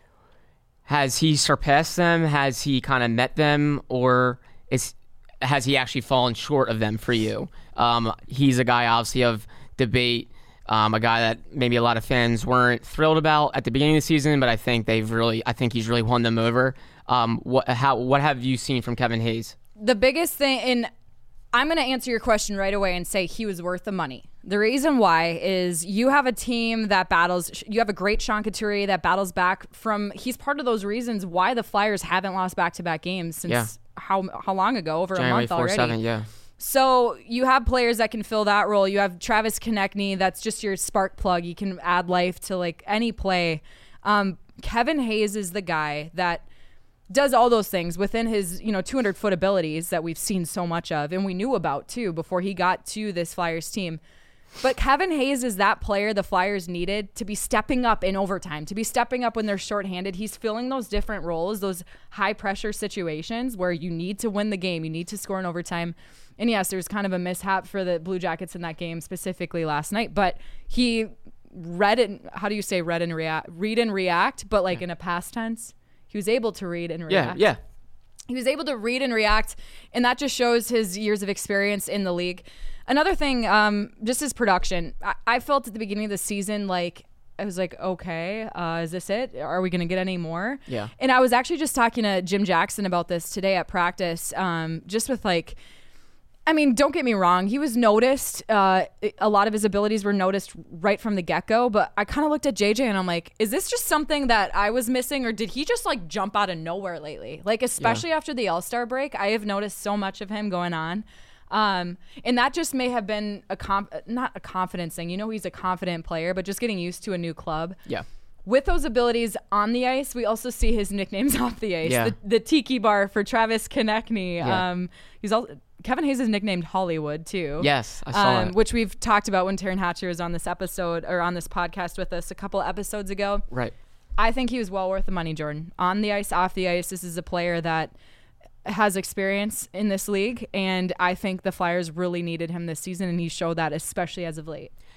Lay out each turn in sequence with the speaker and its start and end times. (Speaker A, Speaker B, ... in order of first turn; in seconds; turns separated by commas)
Speaker A: 0.9-19.6, Speaker B: 19.8-20.9, Speaker B: 21.5-36.0, Speaker A: 35.1-36.3, Speaker B: 36.6-46.4, Speaker B: 47.1-54.0, Speaker B: 54.6-77.4, Speaker A: 77.1-77.6, Speaker B: 78.3-95.6, Speaker B: 96.5-117.8, Speaker B: 118.4-133.4, Speaker A: 121.8-122.1, Speaker A: 127.6-128.6, Speaker B: 134.2-137.9, Speaker B: 138.6-144.7